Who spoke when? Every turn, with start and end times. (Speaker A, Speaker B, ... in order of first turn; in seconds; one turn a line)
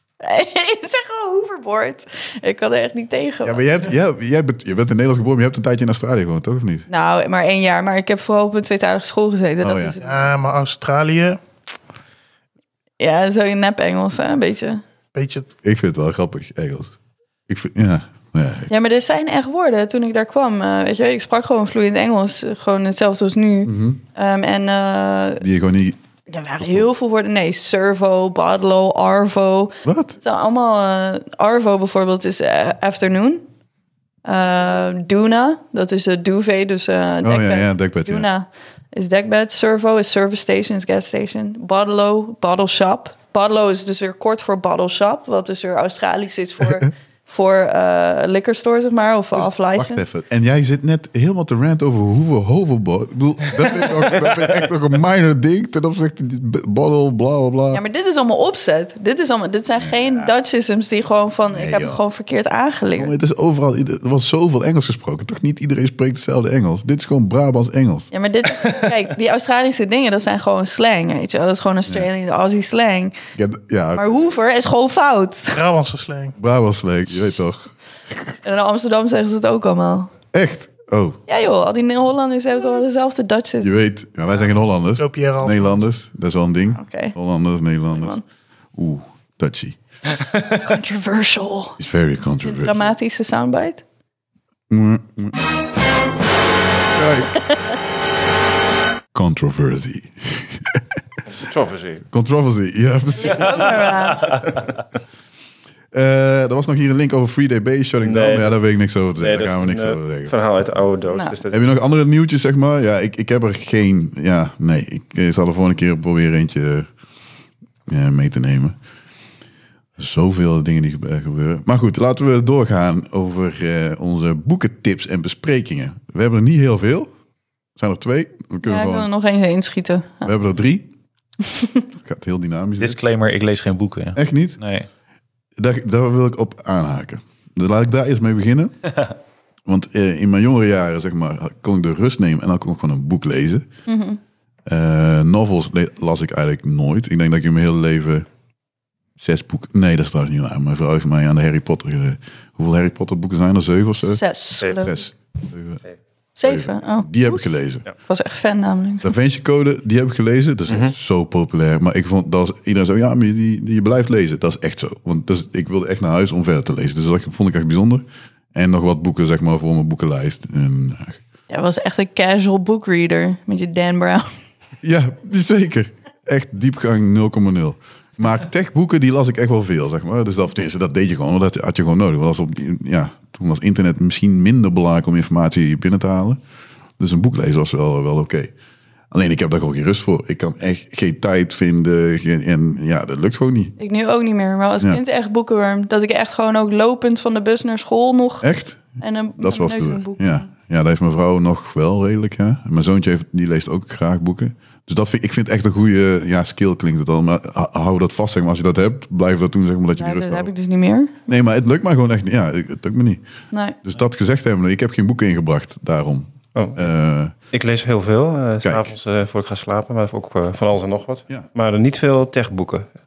Speaker A: 0.2-3.6
Speaker B: 3.4-6.9
Speaker A: 6.9-10.3
Speaker B: 9.6-9.9
Speaker C: 10.0-11.4
Speaker A: 13.0-14.8
Speaker C: 15.1-15.5
Speaker B: 15.6-16.9
Speaker B: 17.5-18.7
Speaker A: 18.7-25.4
Speaker B: 23.6-24.0
Speaker B: 25.4-26.0
Speaker A: 26.3-33.4
Speaker B: 26.6-26.9
Speaker B: 29.8-30.1
Speaker A: 34.2-50.0
Speaker B: 37.2-38.3
Speaker B: 49.3-57.8
Speaker A: 57.7-63.1
Speaker B: 59.8-60.3
Speaker B: 61.5-62.0
Speaker B: 63.0-68.1
Speaker A: 68.1-73.1
Speaker B: 73.3-74.0
Speaker A: 73.9-75.6
Speaker C: 75.5-76.3
Speaker B: 76.4-77.7
Speaker A: 78.4-80.1
Speaker B: 80.3-81.2
Speaker A: 81.3-83.7
Speaker B: 83.6-88.2
Speaker C: 85.0-85.7
Speaker A: 86.8-87.1
Speaker A: 87.9-88.2
Speaker B: 88.7-89.8
Speaker A: 90.5-91.8
Speaker B: 91.8-92.9
Speaker A: 92.4-93.8
Speaker B: 94.7-95.4
Speaker B: 96.9-97.4
Speaker A: 97.3-97.6
Speaker B: 99.1-100.8
Speaker D: 101.3-102.0
Speaker B: 102.1-103.9
Speaker A: 103.2-104.4
Speaker B: 105.9-110.3
Speaker D: 108.0-108.6
Speaker D: 109.2-111.6
Speaker A: 111.1-111.3
Speaker B: 111.5-116.9
Speaker B: 117.9-118.8
Speaker B: 120.0-127.1
Speaker B: 127.8-129.1
Speaker A: 128.6-130.3
Speaker B: 130.2-130.9
Speaker A: 131.5-131.8
Speaker B: 132.0-133.0
Speaker E: 132.8-134.9
Speaker B: 134.1-134.6
Speaker B: 135.6-138.9
Speaker B: 139.7-143.7
Speaker A: 143.9-144.2
Speaker B: 144.7-148.3
Speaker B: 149.2-155.8
Speaker A: 154.0-155.0
Speaker A: 156.3-159.1
Speaker B: 156.4-157.8
Speaker B: 159.0-171.2
Speaker D: 160.7-160.9
Speaker A: 171.5-174.3
Speaker B: 174.8-186.4
Speaker B: 187.0-188.5
Speaker B: 189.1-193.7
Speaker A: 193.8-198.5
Speaker B: 198.4-210.5
Speaker A: 199.0-200.5
Speaker A: 210.0-211.2
Speaker B: 211.3-213.2
Speaker A: 213.5-213.8
Speaker B: 213.8-217.3
Speaker D: 216.5-216.9
Speaker D: 217.5-222.9
Speaker B: 218.6-218.9